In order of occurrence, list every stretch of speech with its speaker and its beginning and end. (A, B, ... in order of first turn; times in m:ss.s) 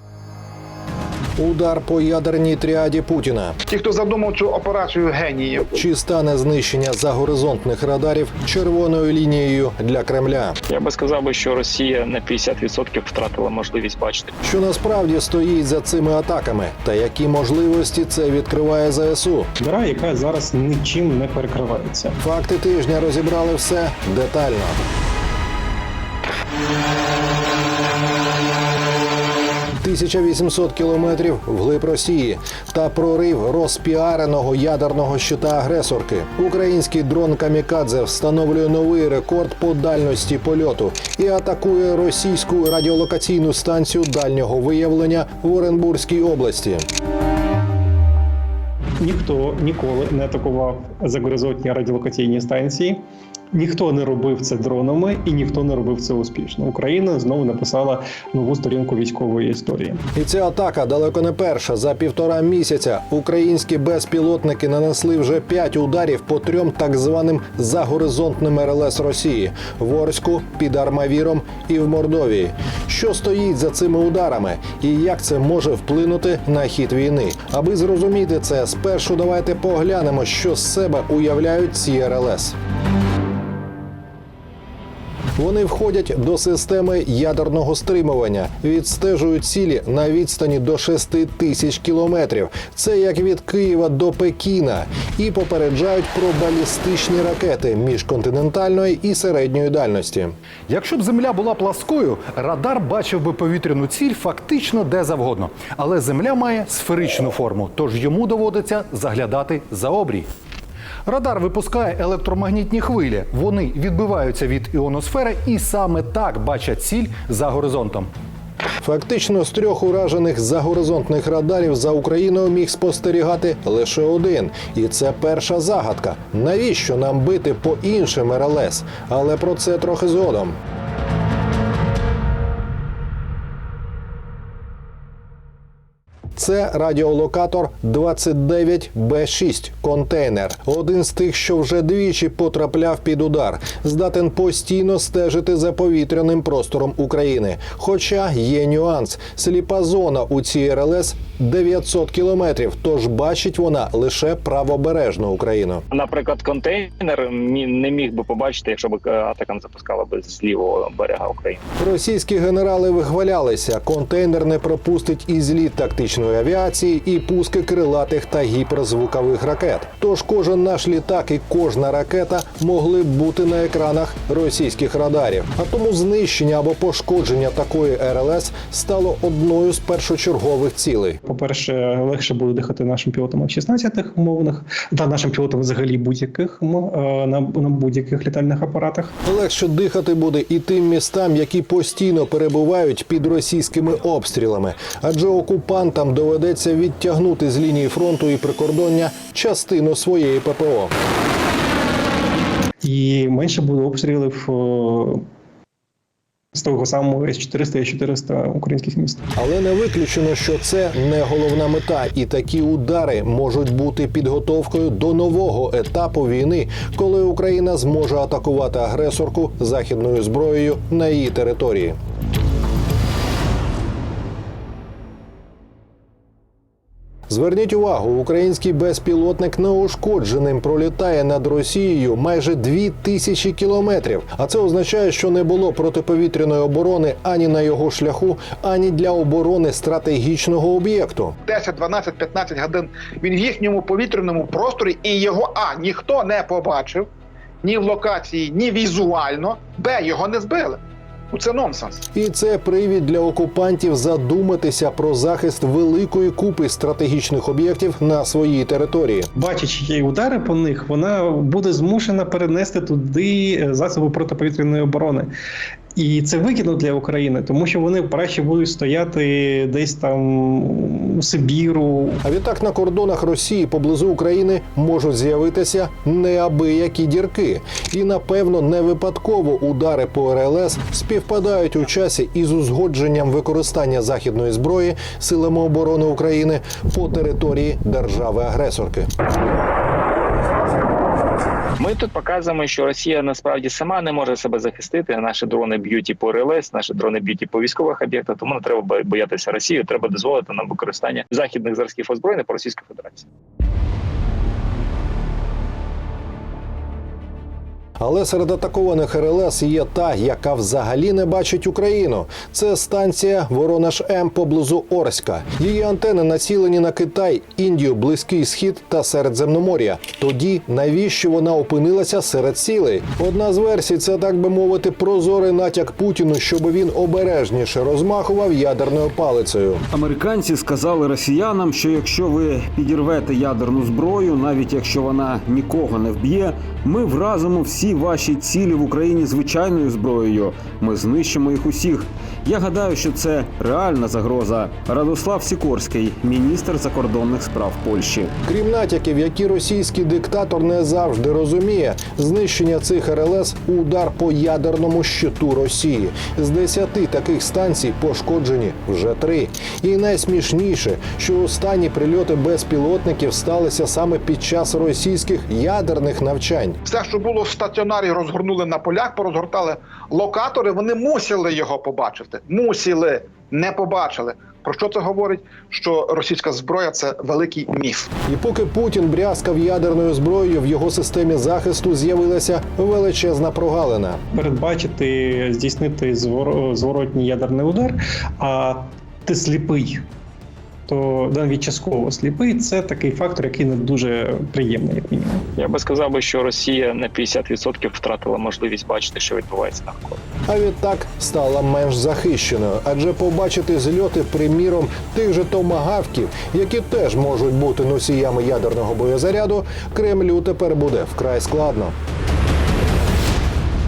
0:01.4-0:03.6 A
0:03.7-0:05.8 B
0:05.7-0:10.6 A
0:10.7-0:14.3 C
0:14.4-0:19.5 A
0:19.6-0:22.2 D
0:22.2-0:24.8 A
0:29.8-0:46.8 A
0:49.0-0:53.0 D
0:53.5-1:00.0 D
1:00.2-1:22.6 A
1:25.4-1:40.3 A
1:40.7-1:50.3 E
1:51.0-1:58.1 E
1:58.8-2:10.6 A
2:16.3-2:35.8 A
2:35.9-2:41.6 C
2:41.8-3:01.2 A
3:01.2-3:09.1 D
3:09.2-3:20.9 A
3:22.8-3:25.2 D
3:26.5-3:29.2 D
3:29.4-3:42.0 A
3:47.3-4:01.3 A
4:01.4-4:07.1 B
4:07.6-4:10.8 B
4:11.3-4:12.0 B
4:12.1-4:19.3 A
4:19.4-4:25.3 D
4:25.9-4:32.2 D
4:32.2-4:49.1 A
4:51.8-5:03.2 C
5:08.0-5:29.8 A
5:29.9-5:48.3 F
5:48.4-6:06.8 A
6:06.8-6:18.1 B
6:18.3-6:24.2 A
6:24.3-6:30.0 D
6:30.9-6:35.4 D
6:35.6-6:40.2 C
6:40.5-6:51.9 A